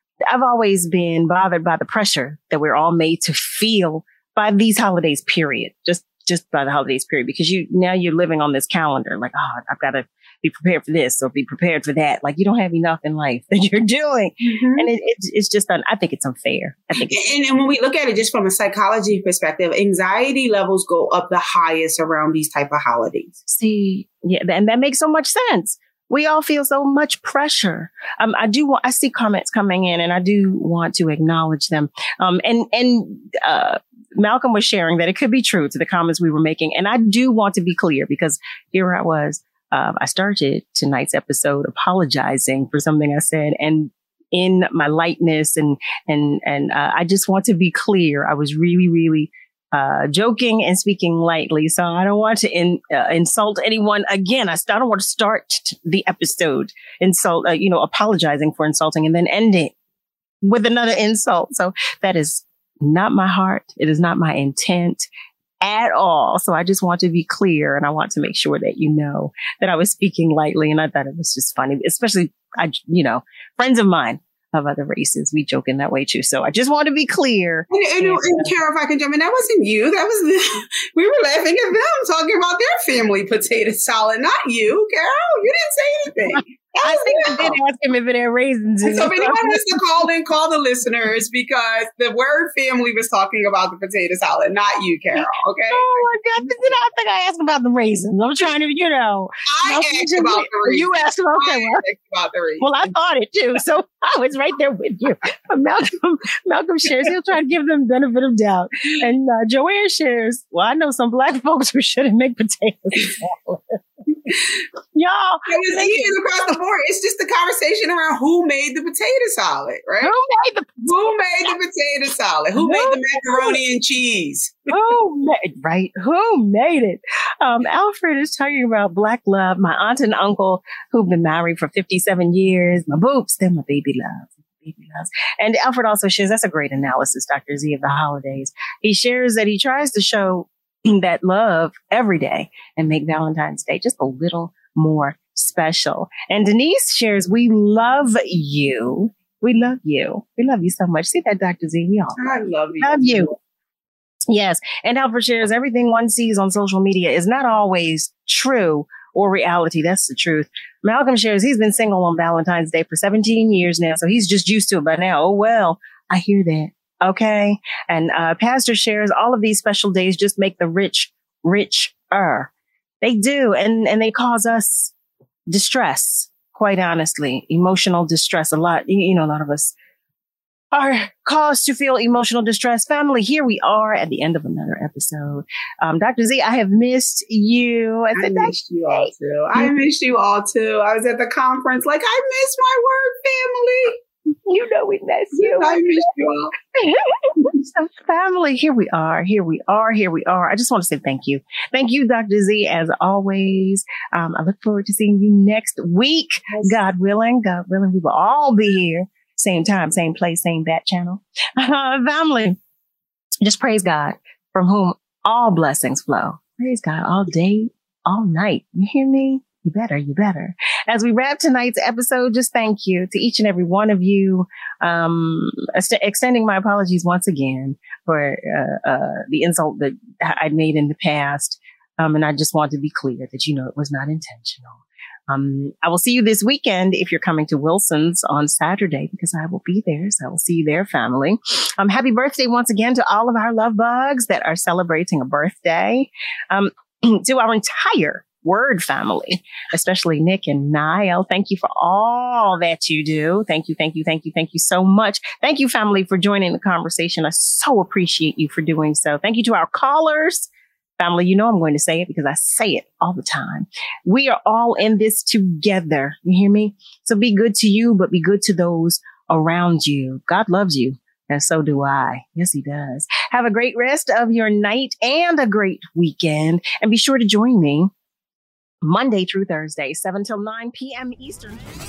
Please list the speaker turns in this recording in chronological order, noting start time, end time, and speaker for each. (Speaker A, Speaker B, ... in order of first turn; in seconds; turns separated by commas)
Speaker A: 0.3-17.3, Speaker B: 14.4-14.9, Speaker B: 17.1-23.3, Speaker A: 23.5-59.7, Speaker A: 60.4-65.1, Speaker A: 65.6-78.5, Speaker B: 77.7-87.6, Speaker A: 86.3-89.8, Speaker B: 88.8-96.0, Speaker A: 95.2-101.8, Speaker B: 99.5-102.7, Speaker A: 102.6-113.8, Speaker B: 114.3-114.6, Speaker A: 114.9-116.2, Speaker B: 115.5-120.1, Speaker A: 120.0-121.5, Speaker B: 120.8-124.7, Speaker A: 122.6-123.6, Speaker A: 124.7-153.3, Speaker B: 152.2-153.3, Speaker A: 154.3-172.5, Speaker A: 173.0-174.9, Speaker A: 175.5-179.7, Speaker A: 180.7-189.7, Speaker B: 188.2-194.0, Speaker A: 194.3-196.0, Speaker B: 195.3-196.5, Speaker A: 196.6-212.6, Speaker A: 213.4-277.9, Speaker A: 278.8-281.7